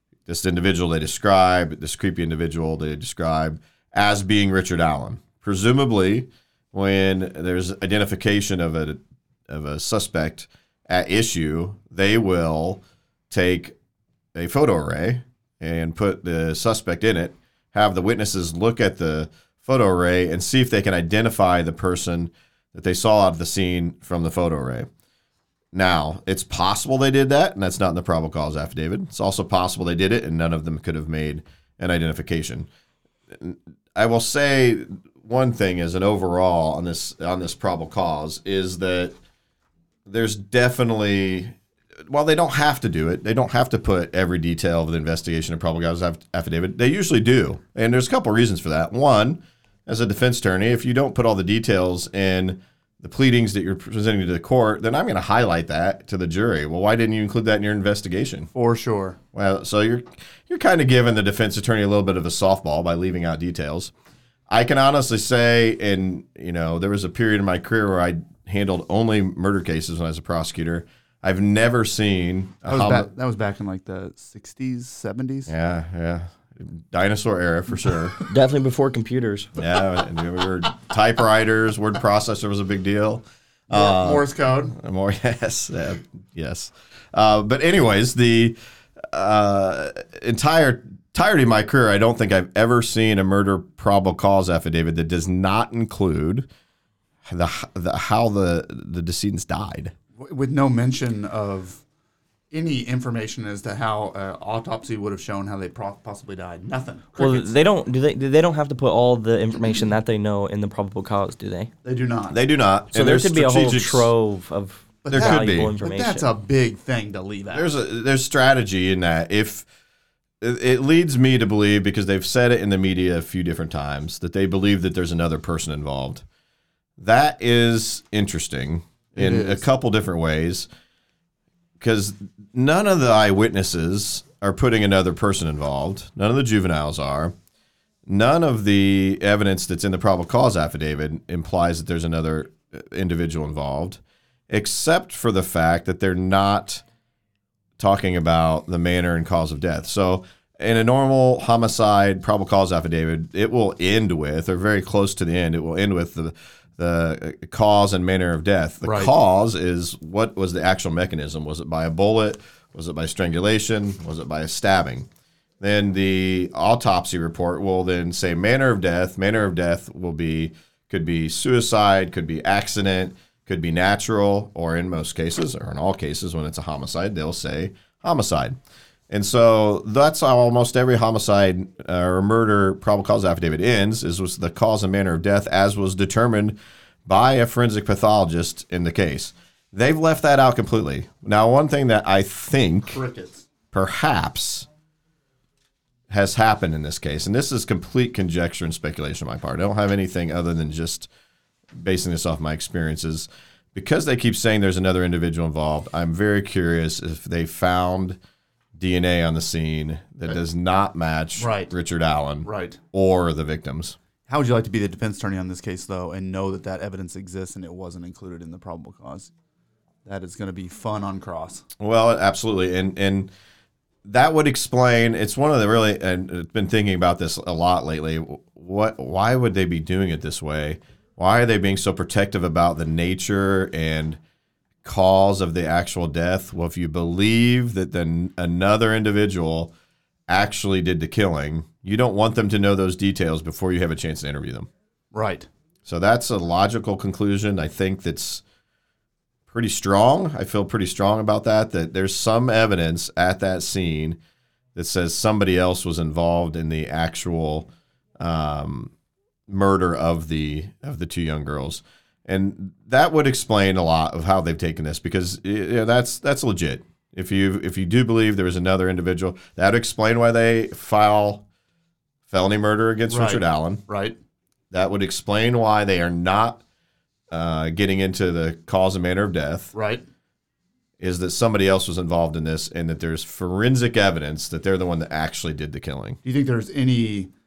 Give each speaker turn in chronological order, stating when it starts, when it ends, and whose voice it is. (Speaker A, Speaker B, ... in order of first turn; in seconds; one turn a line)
Speaker A: 0.2-13.8
Speaker A: 14.3-24.9
Speaker A: 25.7-32.7
Speaker A: 33.3-39.1
Speaker A: 40.0-41.5
Speaker A: 42.1-58.5
Speaker B: 58.5-59.2
Speaker A: 59.3-63.9
Speaker A: 64.5-73.1
Speaker B: 72.7-75.5
Speaker A: 75.5-78.2
Speaker C: 78.3-79.6
Speaker A: 79.6-96.5
Speaker B: 83.7-84.7
Speaker A: 97.3-99.9
Speaker B: 100.2-101.8
Speaker B: 102.5-107.4
Speaker C: 107.2-111.7
Speaker B: 111.8-112.3
Speaker A: 112.3-114.1
Speaker C: 112.9-116.2
Speaker B: 115.0-117.7
Speaker A: 115.1-115.7
Speaker A: 117.5-119.7
Speaker A: 120.4-126.2
Speaker A: 127.0-130.7
Speaker B: 129.2-129.6
Speaker A: 131.8-137.3
Speaker A: 138.1-146.8
Speaker A: 147.8-165.1
Speaker B: 158.8-159.1
Speaker A: 165.6-178.6
Speaker A: 179.1-193.0
Speaker B: 192.9-193.5
Speaker A: 193.7-194.7
Speaker A: 196.1-201.1
Speaker A: 201.7-208.2
Speaker A: 208.8-214.0
Speaker B: 211.4-211.7
Speaker B: 212.4-212.8
Speaker B: 214.3-219.3
Speaker B: 220.0-221.7
Speaker A: 221.8-223.3
Speaker A: 224.0-234.2
Speaker A: 234.8-239.7
Speaker A: 240.3-244.7
Speaker B: 245.1-245.5
Speaker A: 245.8-248.4
Speaker A: 249.5-254.2
Speaker A: 254.7-258.9
Speaker A: 259.5-271.4
Speaker A: 272.3-273.8
Speaker B: 273.1-274.1
Speaker A: 274.7-276.6
Speaker A: 277.3-279.7
Speaker B: 279.7-280.0
Speaker A: 281.0-286.2
Speaker B: 286.2-287.3